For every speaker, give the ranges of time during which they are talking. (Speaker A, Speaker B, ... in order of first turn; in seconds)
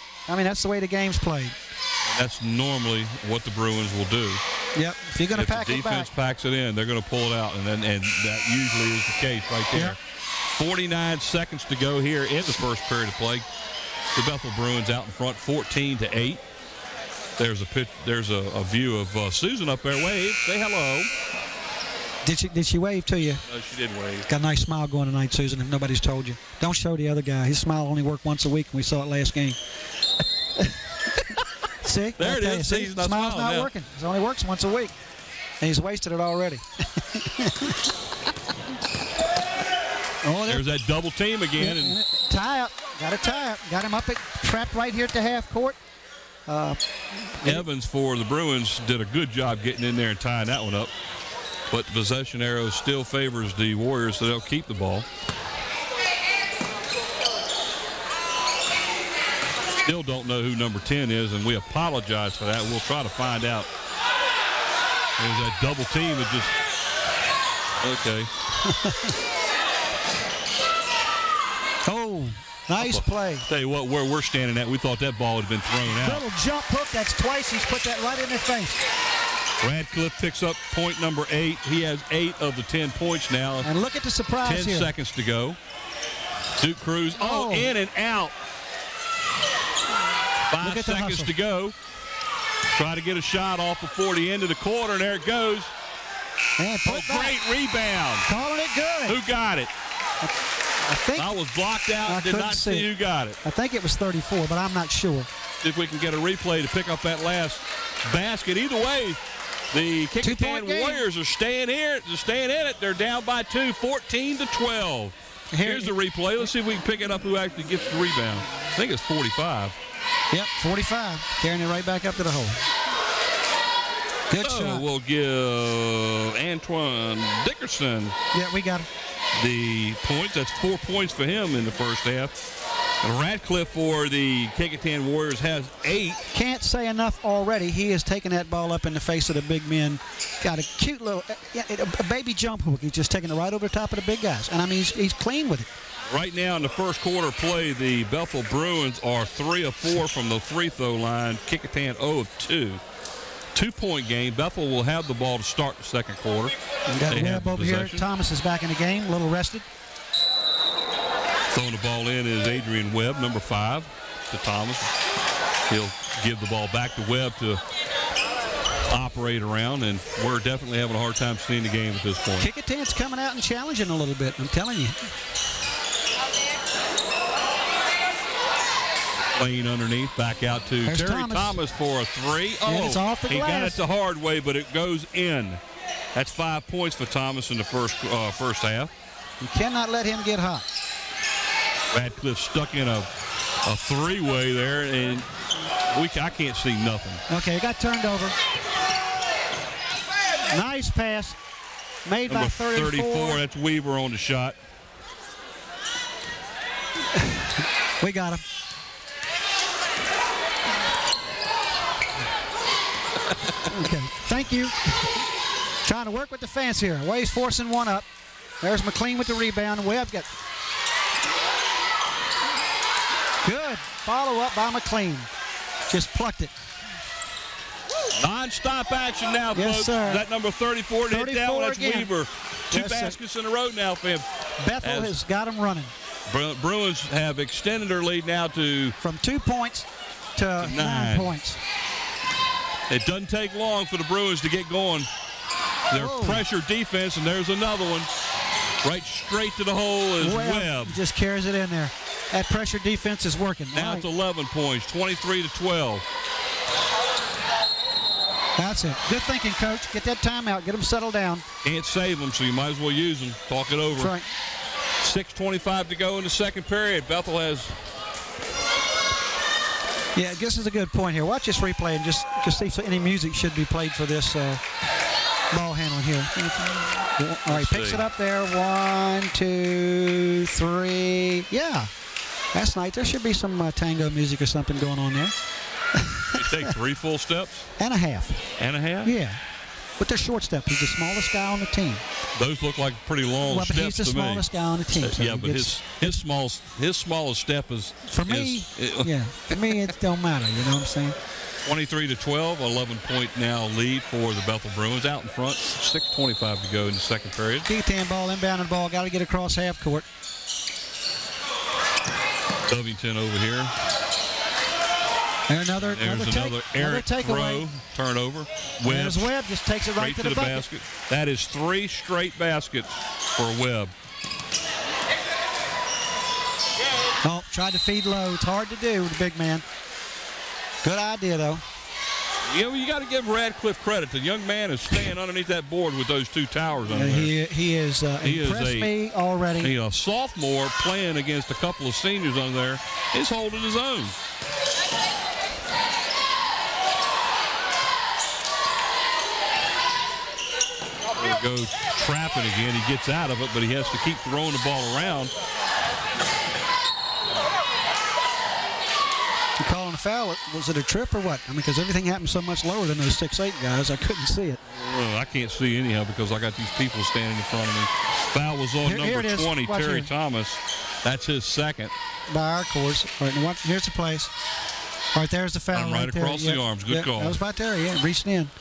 Speaker A: 0.3-1.6, 4.8-6.1, 22.2-23.4, 24.3-29.6, 31.8-34.9, 35.6-37.8, 40.2-40.6, 41.6-45.8, 46.5-47.6, 68.6-69.2, 71.9-73.5, 75.9-78.8, 83.6-84.9, 87.2-87.7, 90.6-91.3, 96.6-97.4, 98.3-99.2, 100.8-101.3, 102.1-102.9, 103.4-105.3, 110.2-111.0, 115.5-115.9, 120.3-122.7, 124.3-124.8, 128.3-128.9, 136.3-145.7, 156.9-159.7, 172.4-175.1, 180.9-181.6, 182.7-183.8, 189.4-190.7, 197.3-198.4, 200.5-201.4, 202.1-203.4, 208.0-208.4, 213.7-215.2, 215.8-218.1, 218.6-220.3, 223.4-225.3, 225.9-226.6, 229.6-230.2, 231.1-232.1, 232.7-233.2, 234.6-235.9, 239.0-241.6, 245.9-246.4, 250.2-254.1, 258.6-261.4, 264.0-264.3, 270.1-274.6, 275.5-281.9, 282.5-285.3, 285.9-286.7, 287.8-288.4, 289.0-289.4, 290.0-292.0, 293.5-296.1, 298.1-301.1, 307.6-310.1, 315.5-317.6, 318.9-320.6, 327.2-329.6, 330.8-331.6, 336.9-339.7, 359.6-364.6, 368.8-370.1, 372.3-374.3, 375.1-378.5
Speaker B: 2.1-4.4, 5.3-10.0, 10.5-13.5, 14.1-16.4, 17.4-21.1, 23.5-24.3, 32.2-33.7, 40.5-42.0, 47.4-50.9, 51.7-55.1, 59.8-63.7, 65.2-66.6, 67.8-68.3, 72.8-76.2, 79.6-83.7, 84.4-85.6, 86.6-88.3, 90.5-91.8, 92.7-95.7, 96.8-98.3, 99.1-99.7, 101.2-103.4, 105.6-109.2, 109.7-119.8, 124.4-128.2, 129.4-132.3, 133.0-136.3, 146.1-152.8, 153.5-156.6, 157.1-158.1, 161.5-164.9, 165.7-167.6, 168.9-172.5, 179.2-185.6, 186.1-188.9, 191.9-193.1, 193.6-195.3, 195.9-197.2, 202.3-204.6, 228.1-234.3, 234.8-235.2, 236.3-238.9, 240.6-241.3, 242.9-245.1, 245.9-248.1, 248.8-251.0, 253.7-256.1, 261.6-264.1, 265.0-267.8, 277.4-278.1, 286.3-287.7, 288.6-289.1, 292.4-294.4, 294.9-299.9, 301.6-307.7, 312.7-313.8, 315.8-319.3, 319.9-323.9, 332.4-337.3, 338.2-338.9, 339.6-344.1, 351.1-355.3, 364.7-371.9, 375.7-377.4